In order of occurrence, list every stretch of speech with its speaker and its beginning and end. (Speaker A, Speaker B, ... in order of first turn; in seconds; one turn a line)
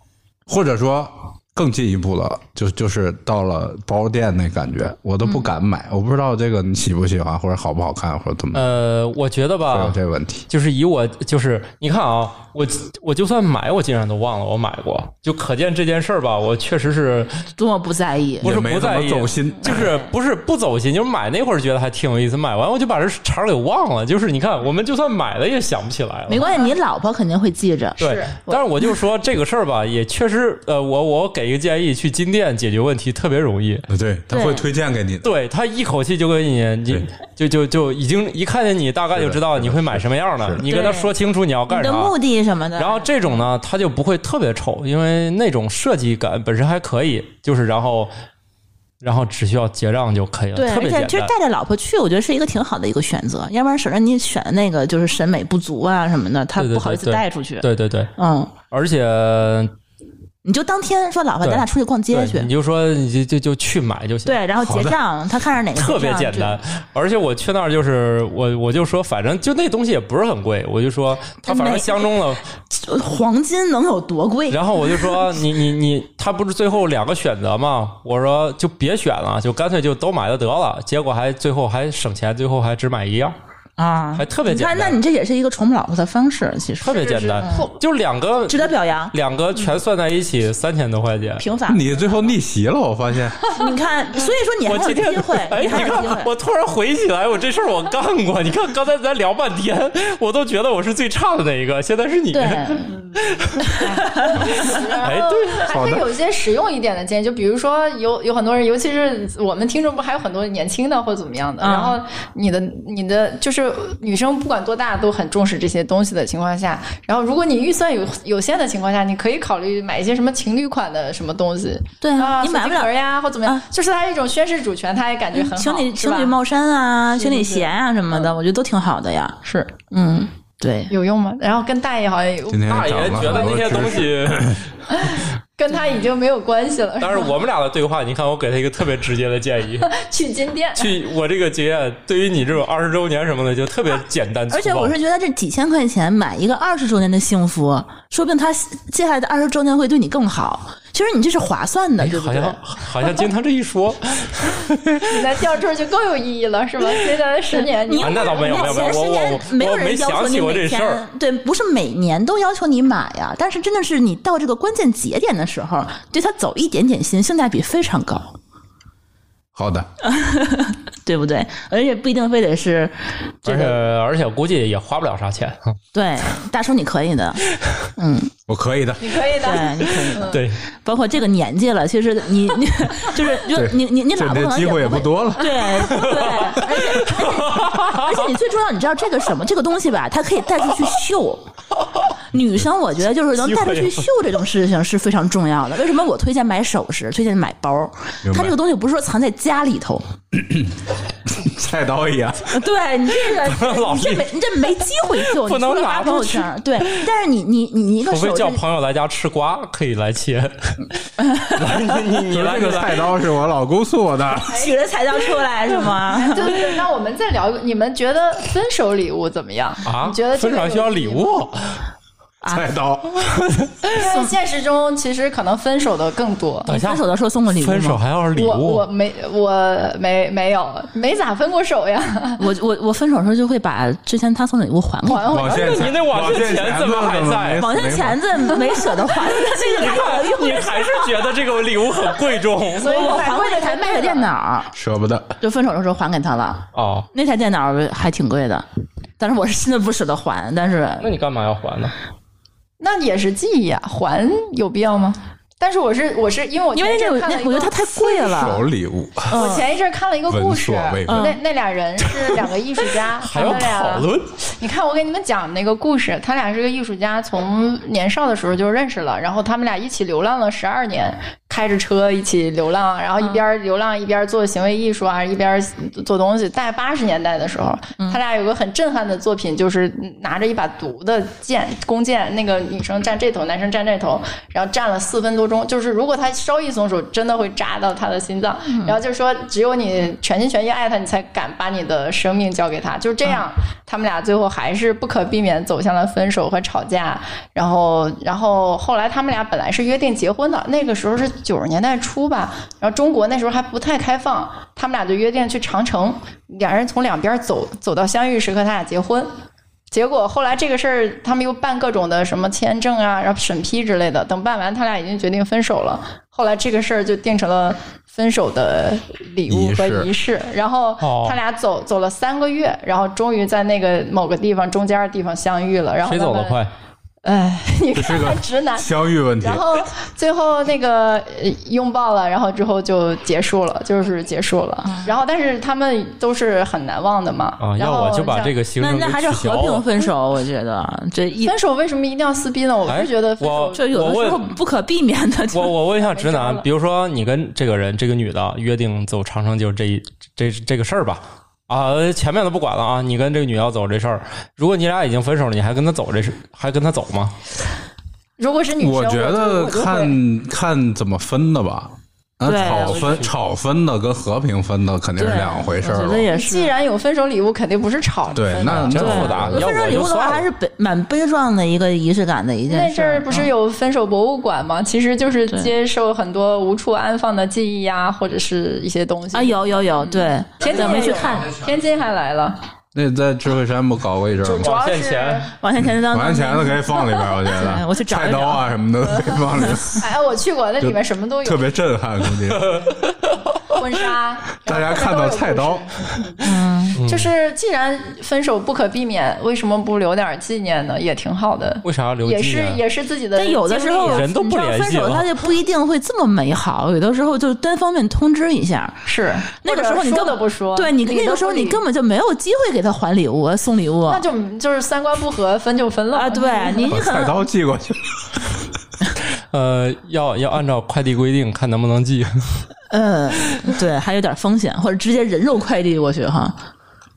Speaker A: 0.5-8.6
Speaker B: 5.2-5.5
Speaker C: 8.5-10.0
Speaker A: 9.7-10.5
Speaker C: 10.5-17.4
Speaker B: 17.6-18.5
Speaker A: 18.4-19.9
Speaker C: 18.4-26.4
Speaker B: 19.7-20.0
Speaker B: 26.3-28.6
Speaker C: 28.0-33.9
Speaker D: 28.0-28.4
Speaker A: 33.9-35.3
Speaker B: 34.3-34.7
Speaker C: 35.2-42.1
Speaker A: 39.1-40.6
Speaker B: 40.6-41.1
Speaker B: 41.7-43.1
Speaker C: 42.8-48.1
Speaker C: 49.0-51.3
Speaker B: 50.5-58.5
Speaker C: 56.6-58.1
Speaker C: 58.7-59.7
Speaker B: 60.4-62.5
Speaker C: 61.4-64.4
Speaker B: 64.2-66.6
Speaker A: 64.7-64.9
Speaker C: 65.8-72.4
Speaker B: 71.5-75.3
Speaker C: 74.5-83.4
Speaker B: 83.8-87.7
Speaker C: 84.2-85.0
Speaker C: 86.8-91.5
Speaker D: 86.9-87.7
Speaker B: 88.5-89.1
Speaker B: 91.4-92.3
Speaker A: 91.7-93.5
Speaker B: 93.5-96.3
Speaker C: 94.7-103.8
Speaker B: 102.3-103.0
Speaker B: 103.7-104.6
Speaker D: 103.8-126.4
Speaker C: 104.4-105.7
Speaker A: 105.7-106.0
Speaker B: 111.6-112.0
Speaker B: 122.0-122.9
Speaker B: 125.3-129.4
Speaker D: 127.2-128.3
Speaker D: 129.4-129.8
Speaker B: 129.9-130.9
Speaker D: 130.9-134.1
Speaker A: 132.5-134.6
Speaker C: 132.7-134.6
Speaker D: 134.9-137.3
Speaker C: 137.0-139.9
Speaker D: 139.9-140.9
Speaker C: 140.8-144.9
Speaker B: 144.5-152.6
Speaker C: 152.0-155.0
Speaker D: 155.1-159.0
Speaker B: 157.5-168.4
Speaker C: 158.0-161.0
Speaker A: 169.6-169.9
Speaker B: 170.0-173.8
Speaker C: 173.5-175.8
Speaker B: 175.9-177.4
Speaker B: 178.0-178.3
Speaker A: 178.5-179.1
Speaker D: 179.0-180.4
Speaker B: 179.3-191.4
Speaker C: 180.2-180.6
Speaker A: 183.5-186.2
Speaker C: 185.9-188.2
Speaker B: 192.3-200.1
Speaker C: 193.4-194.1
Speaker A: 198.2-198.6
Speaker A: 200.3-200.7
Speaker A: 201.3-202.6
Speaker B: 202.5-208.6
Speaker C: 203.3-204.5
Speaker C: 205.0-207.1
Speaker C: 208.1-210.9
Speaker B: 211.2-211.5
Speaker C: 211.5-213.1
Speaker A: 211.6-214.6
Speaker B: 214.4-216.6
Speaker D: 214.5-214.8
Speaker D: 216.1-221.4
Speaker C: 219.8-221.8
Speaker B: 222.4-222.7
Speaker A: 222.5-223.2
Speaker D: 223.9-226.7
Speaker B: 224.0-224.3
Speaker C: 226.7-227.0
Speaker B: 226.7-228.0
Speaker C: 227.6-228.9
Speaker D: 228.4-232.4
Speaker B: 232.4-235.7
Speaker D: 235.1-236.0
Speaker A: 235.3-238.2
Speaker C: 235.5-237.7
Speaker B: 237.6-241.3
Speaker C: 239.6-243.1
Speaker D: 242.8-244.3
Speaker B: 242.8-244.7
Speaker A: 244.7-245.3
Speaker B: 245.4-248.6
Speaker C: 246.7-247.1
Speaker B: 249.2-251.1
Speaker C: 251.0-251.9
Speaker D: 252.8-258.6
Speaker B: 256.7-258.7
Speaker A: 258.4-259.4
Speaker B: 259.3-259.7
Speaker D: 259.3-309.3
Speaker A: 260.3-261.3
Speaker B: 261.1-261.4
Speaker C: 263.2-264.3
Speaker B: 263.4-263.6
Speaker B: 288.7-289.0
Speaker D: 309.9-326.6
Speaker A: 319.5-320.1
Speaker C: 321.0-321.4
Speaker C: 326.1-326.7
Speaker D: 327.2-338.5
Speaker A: 328.0-329.6
Speaker C: 337.6-339.8
Speaker B: 338.8-341.6
Speaker D: 341.4-343.8
Speaker C: 342.9-344.5
Speaker B: 343.7-345.8
Speaker C: 345.5-357.3
Speaker D: 346.1-346.7
Speaker D: 358.4-360.2
Speaker A: 358.8-366.3
Speaker B: 362.4-363.2
Speaker C: 362.5-363.3
Speaker B: 365.2-366.7
Speaker D: 366.3-369.3
Speaker A: 368.3-370.1
Speaker C: 368.7-370.5
Speaker B: 368.9-373.5
Speaker D: 372.7-382.6
Speaker B: 375.5-375.7
Speaker B: 379.3-381.6
Speaker A: 382.9-384.7
Speaker D: 384.4-385.5
Speaker C: 384.6-385.5
Speaker B: 385.6-388.8
Speaker A: 385.9-390.1
Speaker B: 389.5-389.8
Speaker D: 390.0-391.7
Speaker A: 390.8-392.8
Speaker C: 392.5-393.7
Speaker D: 393.7-396.0
Speaker A: 394.6-396.0
Speaker B: 396.4-397.0
Speaker C: 396.9-397.3
Speaker D: 397.1-404.3
Speaker C: 401.8-402.8
Speaker B: 403.4-409.0
Speaker C: 404.1-405.3
Speaker D: 409.1-411.8
Speaker B: 409.6-414.2
Speaker D: 414.1-416.9
Speaker B: 416.1-417.4
Speaker A: 416.9-418.4
Speaker C: 419.5-422.6
Speaker B: 422.9-426.6